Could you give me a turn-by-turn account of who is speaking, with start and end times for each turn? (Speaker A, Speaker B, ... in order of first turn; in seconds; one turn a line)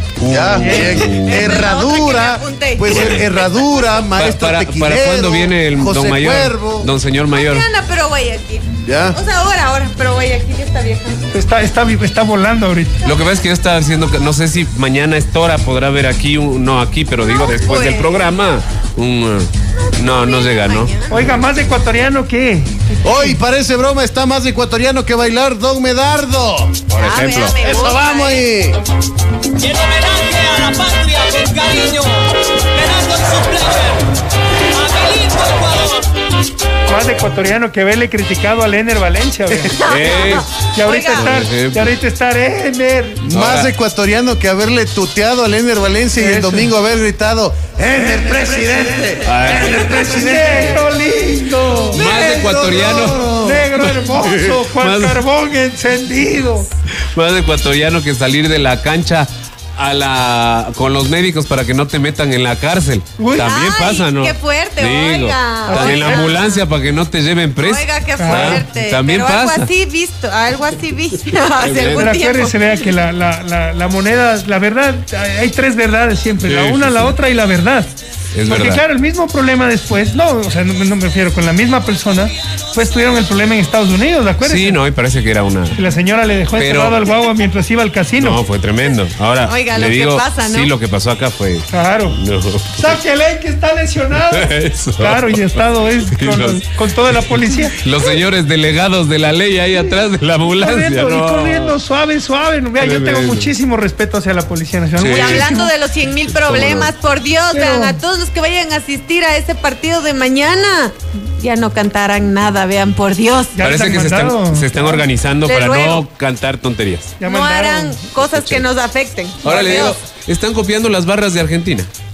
Speaker A: 0.2-1.6
Speaker B: 0.2-6.9
Speaker C: 0.6-0.9
Speaker D: 0.7-3.4
Speaker A: 2.9-3.2
Speaker A: 4.2-7.7
Speaker D: 7.3-11.3
Speaker B: 8.8-9.2
Speaker C: 11.3-13.0
Speaker A: 13.0-20.9
Speaker D: 17.2-18.2
Speaker D: 20.0-21.3
Speaker C: 21.1-23.2
Speaker B: 23.0-26.9
Speaker A: 26.9-27.6
Speaker D: 27.0-28.4
Speaker B: 27.6-28.8
Speaker E: 29.6-32.2
Speaker E: 32.7-34.0
Speaker E: 34.7-36.0
Speaker C: 36.9-39.8
Speaker D: 39.8-41.3
Speaker A: 39.9-40.5
Speaker C: 40.7-43.2
Speaker A: 41.1-41.9
Speaker B: 43.2-50.9
Speaker A: 43.3-43.7
Speaker C: 46.2-46.7
Speaker C: 48.0-52.0
Speaker A: 49.2-50.0
Speaker B: 51.9-53.8
Speaker A: 51.9-53.3
Speaker C: 53.3-56.6
Speaker A: 53.8-55.2
Speaker A: 57.1-69.7
Speaker C: 63.2-63.5
Speaker D: 63.4-66.6
Speaker C: 65.7-66.3
Speaker D: 67.6-72.6
Speaker C: 68.2-68.6
Speaker A: 71.6-72.1
Speaker C: 72.0-77.9
Speaker A: 76.4-77.1
Speaker A: 78.3-78.8
Speaker C: 78.5-84.8
Speaker A: 84.4-85.8
Speaker C: 85.7-88.4
Speaker A: 86.5-87.0
Speaker A: 88.2-92.9
Speaker D: 89.4-90.7
Speaker C: 91.7-92.1
Speaker C: 92.8-97.7
Speaker A: 94.3-95.5
Speaker A: 96.1-101.8
Speaker C: 100.6-105.6
Speaker A: 102.8-103.5
Speaker A: 105.0-105.7
Speaker D: 105.1-113.6
Speaker A: 106.2-106.9
Speaker C: 107.5-108.0
Speaker C: 113.5-115.0
Speaker A: 113.6-117.2
Speaker D: 115.4-116.0
Speaker C: 117.2-118.0
Speaker D: 117.2-120.0
Speaker A: 118.2-118.6
Speaker A: 119.4-121.9